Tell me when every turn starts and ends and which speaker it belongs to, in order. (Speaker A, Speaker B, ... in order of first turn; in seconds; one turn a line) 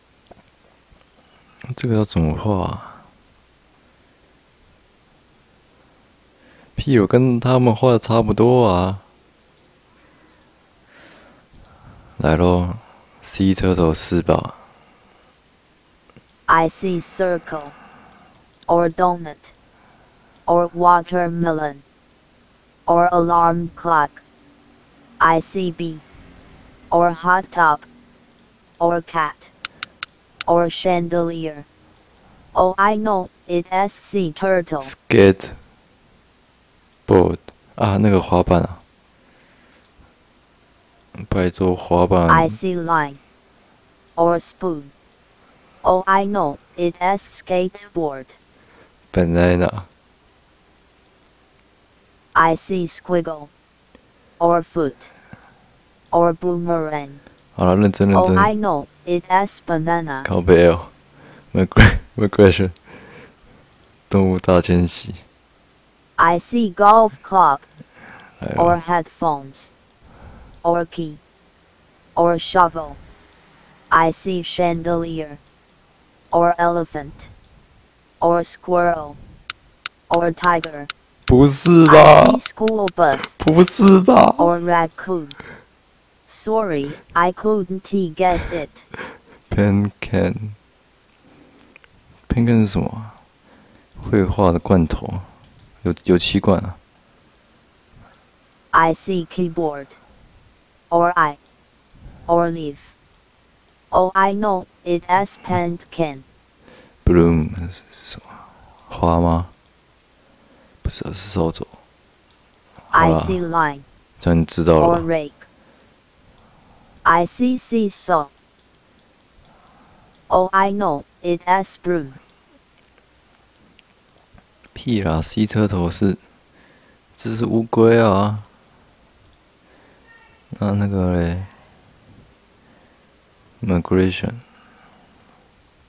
Speaker A: 1.6-3.0
Speaker A: 6.8-9.0
Speaker A: 12.2-14.6
Speaker B: 16.5-17.8
Speaker B: 18.7-19.5
Speaker B: 20.5-21.8
Speaker B: 22.9-24.2
Speaker B: 25.2-26.0
Speaker B: 26.9-27.9
Speaker B: 28.8-29.5
Speaker B: 30.5-31.7
Speaker B: 32.5-34.9
Speaker A: 34.8-35.6
Speaker A: 37.1-38.8
Speaker A: 41.1-42.6
Speaker B: 42.3-43.2
Speaker B: 44.1-44.9
Speaker B: 45.8-48.4
Speaker A: 49.1-49.9
Speaker B: 52.3-53.5
Speaker B: 54.4-55.1
Speaker B: 56.1-57.2
Speaker A: 57.5-58.5
Speaker B: 58.1-60.3
Speaker A: 60.2-60.9
Speaker A: 61.5-62.8
Speaker A: 64.1-65.2
Speaker B: 66.2-67.7
Speaker A: 68.4-68.8
Speaker B: 68.6-69.7
Speaker B: 70.6-71.2
Speaker B: 72.2-73.0
Speaker B: 73.9-75.4
Speaker B: 76.3-77.3
Speaker B: 78.2-79.2
Speaker B: 80.1-80.9
Speaker A: 81.3-82.4
Speaker B: 81.8-83.4
Speaker A: 83.4-84.5
Speaker B: 84.4-85.4
Speaker B: 86.3-88.9
Speaker A: 89.5-90.6
Speaker A: 92.3-93.1
Speaker A: 94.0-95.3
Speaker A: 95.8-96.8
Speaker B: 98.7-100.0
Speaker B: 100.9-101.4
Speaker B: 102.3-102.9
Speaker B: 103.9-106.2
Speaker A: 107.0-108.3
Speaker A: 108.9-109.5
Speaker A: 110.8-111.8
Speaker A: 112.9-113.4
Speaker B: 112.9-113.8
Speaker A: 114.2-115.0
Speaker B: 114.8-115.5
Speaker B: 117.0-118.3
Speaker B: 120.3-122.2
Speaker A: 124.7-126.2
Speaker A: 127.2-128.5
Speaker A: 130.5-131.5
Speaker A: 133.6-134.4